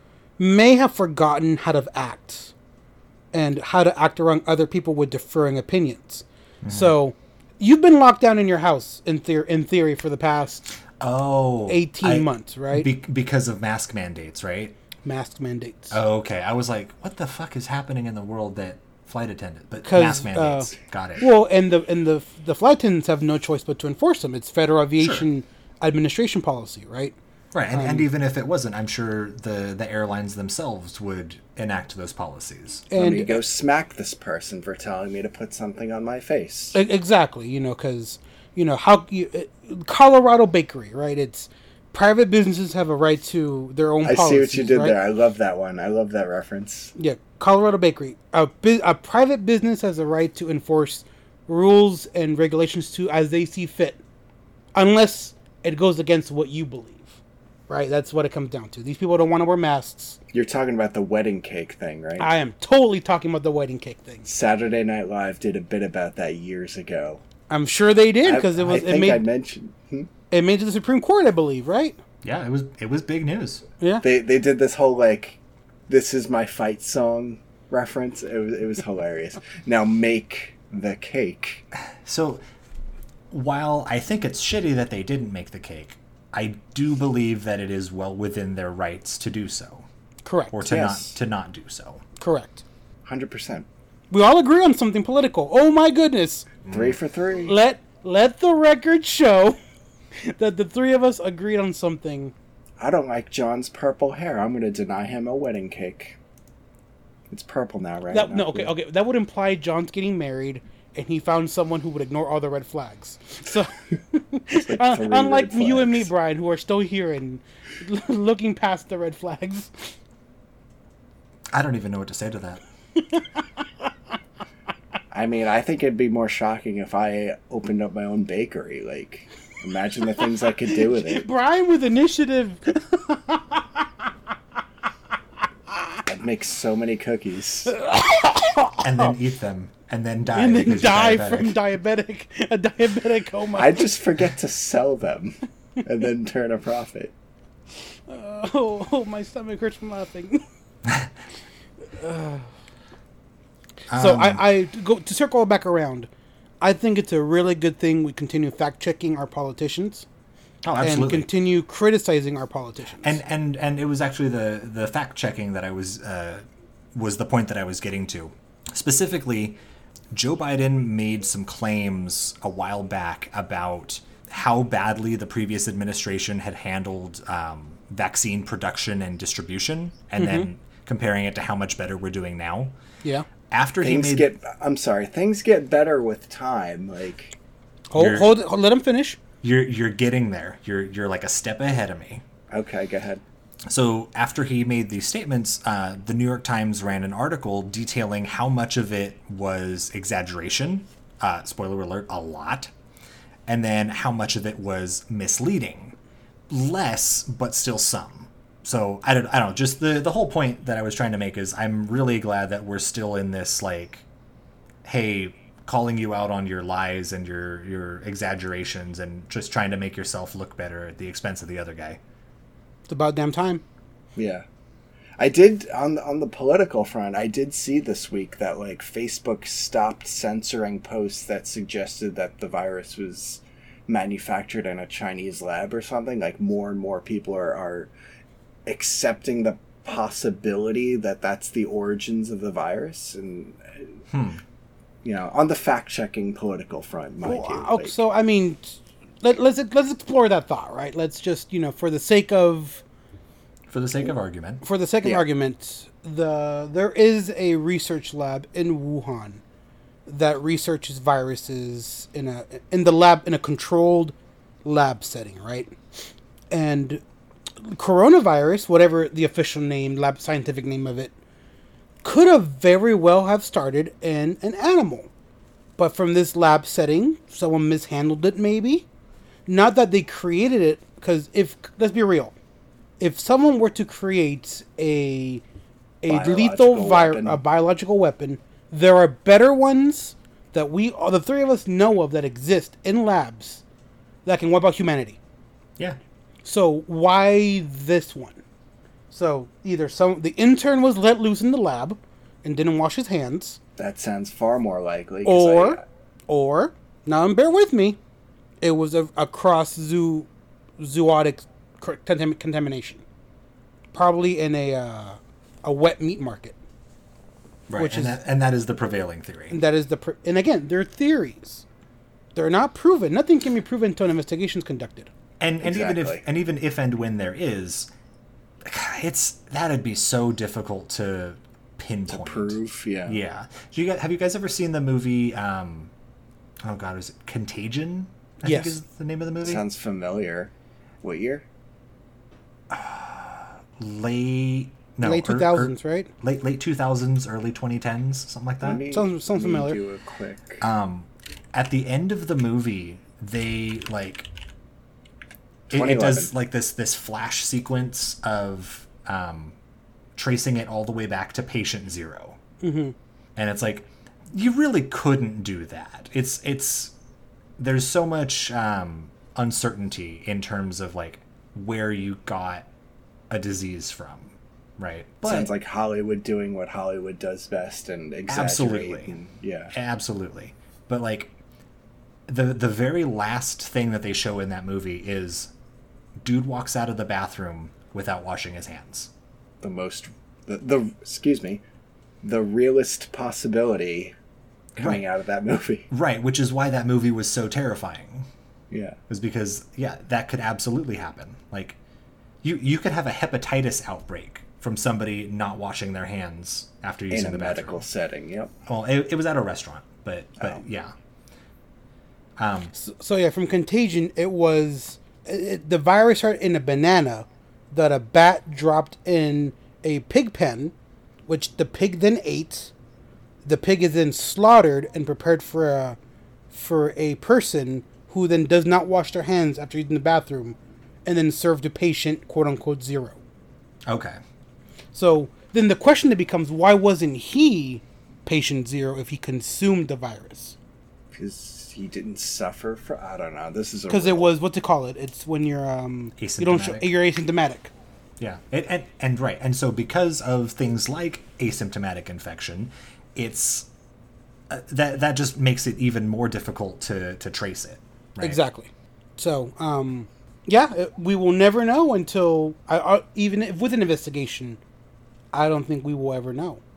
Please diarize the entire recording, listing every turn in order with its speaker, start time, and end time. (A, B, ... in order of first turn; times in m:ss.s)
0:00.4-0:02.5 A
0:03.3-0:10.7 A
0:06.6-0:06.9 B
0:11.0-0:14.8 B
0:11.7-0:12.9 A
0:15.0-0:16.0 A
0:15.9-0:21.3 B
0:19.8-0:27.1 A
0:25.0-0:25.3 B
0:27.5-0:32.8 B
0:27.7-0:28.1 A
0:32.9-0:33.4 A
0:33.0-0:36.8 C
0:36.7-0:45.0 A
0:44.0-0:46.9 C
0:46.9-0:54.0 A
0:54.7-0:57.1 A
0:57.7-1:00.2 A
1:00.3-1:02.3 C
1:02.2-1:04.3 A
1:04.2-1:07.2 C
1:07.5-1:09.2 A
1:08.2-1:10.1 C
1:10.3-1:12.0 A
1:12.2-1:13.6 B
1:14.0-1:21.6 C
1:22.0-1:22.4 B
1:23.3-1:29.8 B
1:30.2-1:30.6 A
1:30.5-1:32.0 B
1:30.6-1:31.1 C
1:32.2-1:32.6 A
1:33.0-1:33.6 C
1:34.1-1:36.5 A
1:36.6-1:37.0 B
1:36.7-1:37.6 C
1:37.4-1:39.6 A
1:40.2-1:42.3 A
1:42.8-1:46.2 C
1:47.3-1:48.7 C
1:48.1-1:59.9 A
1:54.5-1:56.1 C
2:01.5-2:02.6 B
2:05.1-2:11.2 C
2:10.8-2:13.9 A
2:16.0-2:17.7 C
2:17.7-2:19.1 A
2:18.8-2:21.5 B
2:20.3-2:23.8 A
2:23.6-2:27.1 C
2:28.1-2:30.4 A
2:32.0-2:32.5 A
2:33.9-2:34.4 B
2:33.9-2:36.1 A
2:36.6-2:40.0 A
2:40.6-2:41.3 B
2:40.8-2:43.2 A
2:43.0-2:49.6 B
2:50.1-3:02.7 B
3:00.2-3:00.5 A
3:03.5-3:04.3 B
3:03.8-3:07.3 C
3:07.9-3:09.2 A
3:07.9-3:08.3 B
3:09.4-3:12.2 B
3:12.5-3:13.2 C
3:13.7-3:22.7 B
3:23.5-3:26.0 B
3:26.5-3:34.0 B
3:34.8-3:42.0 B
3:42.9-3:43.6 A
3:44.2-3:44.4 C
3:45.2-3:57.9 C
3:58.6-4:03.9 C
4:04.1-4:04.4 B
4:05.0-4:08.0 C
4:07.2-4:12.8 A
4:13.7-4:14.6 B
4:14.6-4:19.4 A
4:20.0-4:24.1 A
4:24.6-4:25.7 A
4:26.5-4:27.0 A
4:27.6-4:31.1 A
4:32.0-4:35.1 A
4:35.8-4:38.8 A
4:39.5-4:42.3 A
4:43.0-4:45.4 A
4:46.0-4:53.6 A
4:46.1-4:47.4 C
4:54.2-4:55.2 A
4:56.4-4:58.4 A
4:59.1-5:03.6 A
5:03.8-5:05.8 C
5:05.2-5:08.0 A
5:08.6-5:10.3 A
5:10.8-5:13.0 A
5:13.9-5:16.6 A
5:17.7-5:19.6 B
5:17.8-5:18.2 A
5:19.5-5:21.6 A
5:22.3-5:25.1 A
5:25.4-5:27.9 B
5:25.6-5:26.2 C
5:28.6-5:35.9 B
5:32.1-5:33.2 C
5:36.6-5:39.6 B
5:38.4-5:38.8 A
5:39.4-5:41.4 C
5:42.7-5:48.8 B
5:45.0-5:46.1 A
5:48.6-5:50.6 C
5:48.9-5:49.8 A
5:50.6-5:54.3 B
5:55.7-5:56.3 C
5:55.7-5:59.6 B
6:00.2-6:02.4 B
6:02.6-6:02.9 A
6:03.4-6:06.9 B
6:07.6-6:12.7 B
6:13.3-6:15.5 B
6:15.2-6:19.7 C
6:18.3-6:19.1 B
6:19.7-6:21.3 B
6:22.3-6:25.5 B
6:26.2-6:29.1 B
6:29.6-6:31.6 C
6:32.2-6:34.1 C
6:34.8-6:35.9 C
6:35.9-6:38.3 B
6:38.7-6:39.0 C
6:39.1-6:41.8 B
6:42.4-6:47.8 B
6:47.1-6:48.5 C
6:48.7-6:50.9 B
6:52.4-6:52.7 B
6:52.7-7:00.7 A
7:01.3-7:02.7 A
7:03.4-7:06.0 A
7:06.5-7:13.2 A
7:13.9-7:14.2 B
7:14.9-7:20.6 A
7:21.1-7:24.3 C
7:23.9-7:27.7 A
7:26.2-7:26.9 B
7:28.2-7:33.7 B
7:34.5-7:38.4 B
7:38.2-7:44.6 A
7:45.3-7:46.6 A